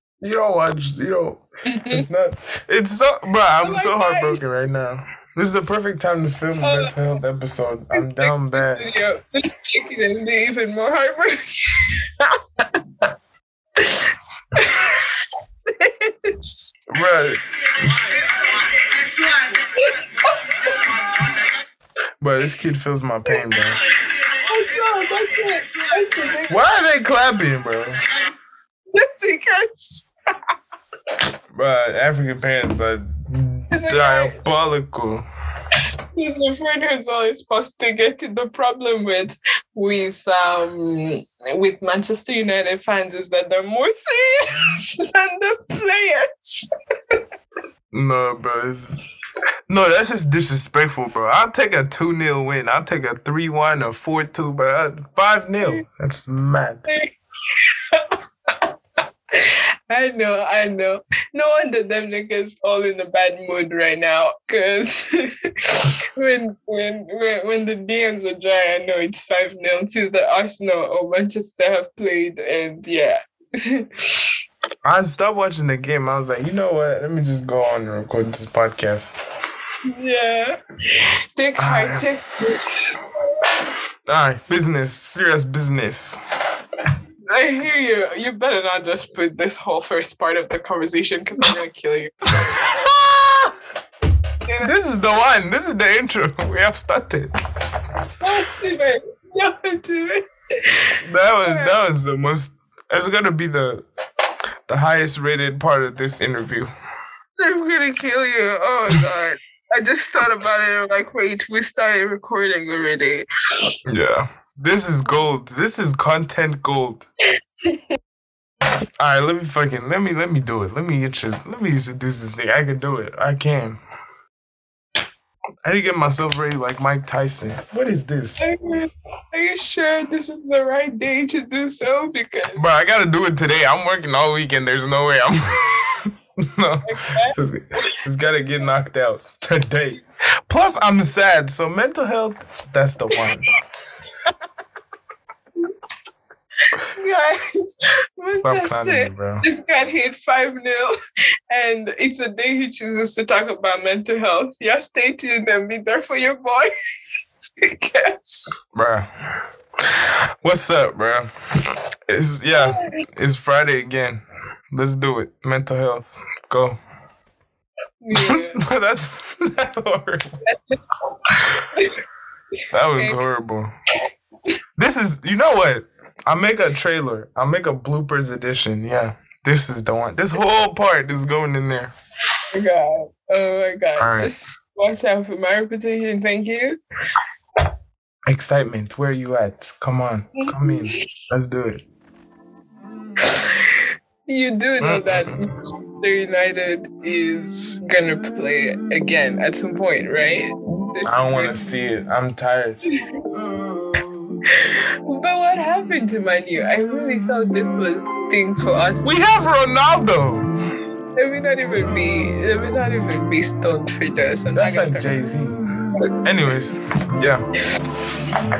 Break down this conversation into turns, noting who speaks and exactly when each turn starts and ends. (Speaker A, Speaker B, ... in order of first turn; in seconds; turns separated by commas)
Speaker A: 0.2-8.8, Speaker B: 1.7-2.0, Speaker B: 3.6-4.4, Speaker B: 6.6-6.9, Speaker B: 7.9-13.1, Speaker B: 13.8-16.7, Speaker A: 16.9-18.1, Speaker B: 18.6-21.3, Speaker A: 22.2-23.8, Speaker B: 24.3-26.6, Speaker A: 26.5-28.0, Speaker B: 28.9-30.1, Speaker A: 31.5-35.2, Speaker B: 33.7-34.3, Speaker B: 36.1-47.2, Speaker A: 47.9-49.0, Speaker A: 49.7-56.9, Speaker B: 56.9-58.7, Speaker B: 59.3-74.3, Speaker A: 74.8-79.2, Speaker B: 79.9-83.5, Speaker A: 81.6-82.1, Speaker A: 84.0-86.2, Speaker B: 87.3-92.9, Speaker A: 92.3-93.5, Speaker B: 94.4-94.7, Speaker A: 94.6-97.3, Speaker B: 98.2-100.8, Speaker A: 101.0-103.8, Speaker B: 101.4-101.8, Speaker A: 104.7-106.7, Speaker B: 107.4-113.3, Speaker A: 113.8-117.0, Speaker A: 119.0-123.8, Speaker A: 125.6-128.4, Speaker B: 128.4-132.6, Speaker A: 132.6-136.0, Speaker A: 136.5-143.5, Speaker B: 136.8-137.3, Speaker B: 146.7-150.9, Speaker A: 148.3-149.4, Speaker B: 151.5-156.7, Speaker B: 157.6-158.5, Speaker A: 158.7-159.1, Speaker A: 159.9-166.8, Speaker B: 162.5-163.0, Speaker B: 168.0-168.6, Speaker A: 168.1-170.2, Speaker B: 170.4-170.8, Speaker B: 171.7-172.0, Speaker A: 172.7-173.7, Speaker B: 172.9-173.2, Speaker A: 174.8-181.9, Speaker B: 182.5-186.8, Speaker A: 184.0-184.3, Speaker A: 188.3-191.8, Speaker B: 190.6-191.0, Speaker B: 193.2-195.4, Speaker A: 194.8-195.4, Speaker B: 196.0-201.6, Speaker A: 201.0-202.8, Speaker B: 204.5-209.1, Speaker A: 209.0-210.5, Speaker B: 211.2-215.2, Speaker A: 214.5-215.6, Speaker A: 216.2-217.4